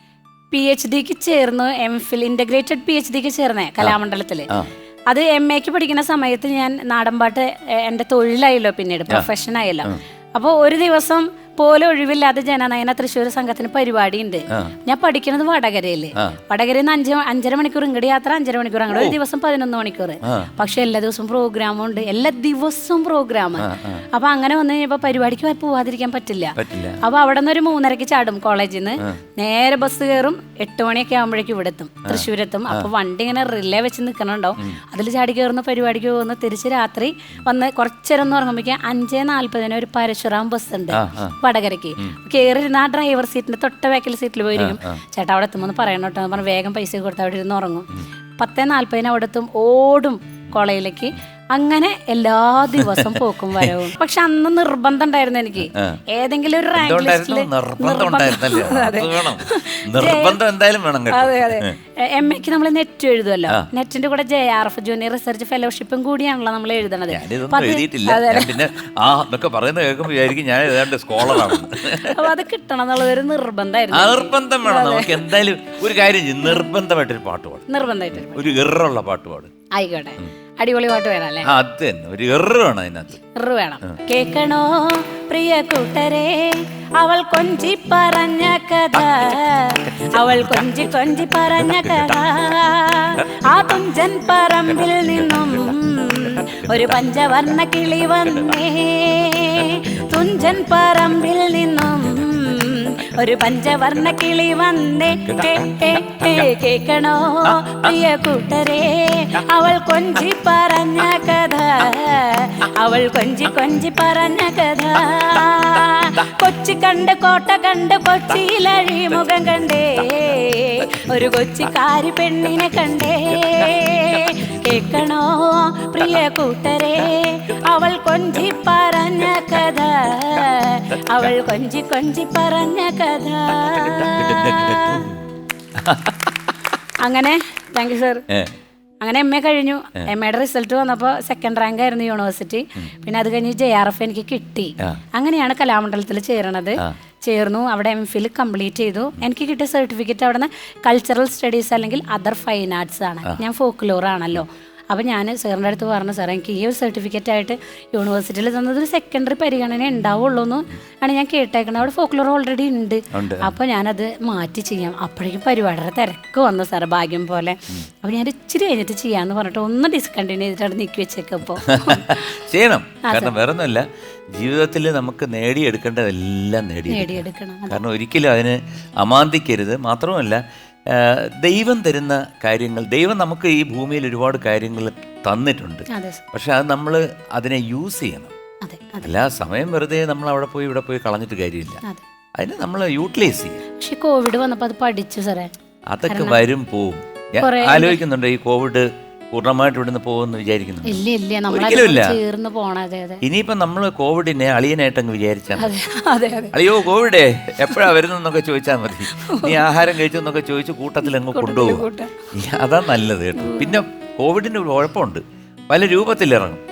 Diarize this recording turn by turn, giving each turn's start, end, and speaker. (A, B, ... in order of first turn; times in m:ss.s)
0:00.5-0:04.5 A
0:05.1-0:47.9 A
0:20.2-0:20.5 B
0:23.6-0:24.0 B
0:26.6-0:27.0 B
0:32.1-0:32.9 B
0:40.9-0:41.4 B
0:44.6-0:45.0 B
0:48.4-1:00.4 A
0:52.8-0:53.7 B
0:55.7-0:56.0 B
0:56.8-1:01.7 B
1:01.1-1:08.7 A
1:07.1-1:12.2 B
1:11.2-1:15.3 A
1:13.9-1:19.5 B
1:17.7-1:18.5 A
1:19.8-1:21.5 A
1:21.4-1:23.2 B
1:23.4-2:15.1 A
1:45.2-1:46.3 B
2:14.1-2:15.2 B
2:15.8-2:16.3 B
2:17.0-2:18.2 A
2:19.0-2:52.2 A
2:43.1-2:43.5 B
2:51.6-3:08.3 B
2:53.1-2:53.3 A
2:56.9-2:57.8 A
3:05.9-3:06.2 A
3:08.6-3:09.1 A
3:09.0-3:11.8 B
3:12.4-3:13.6 B
3:13.8-3:15.5 A
3:15.9-3:22.2 B
3:16.1-3:16.4 A
3:17.4-3:18.0 A
3:20.8-3:23.2 A
3:23.2-3:25.7 B
3:25.6-3:26.6 A
3:26.5-3:36.6 B
3:29.1-3:29.6 A
3:31.3-3:32.3 A
3:33.4-3:33.8 A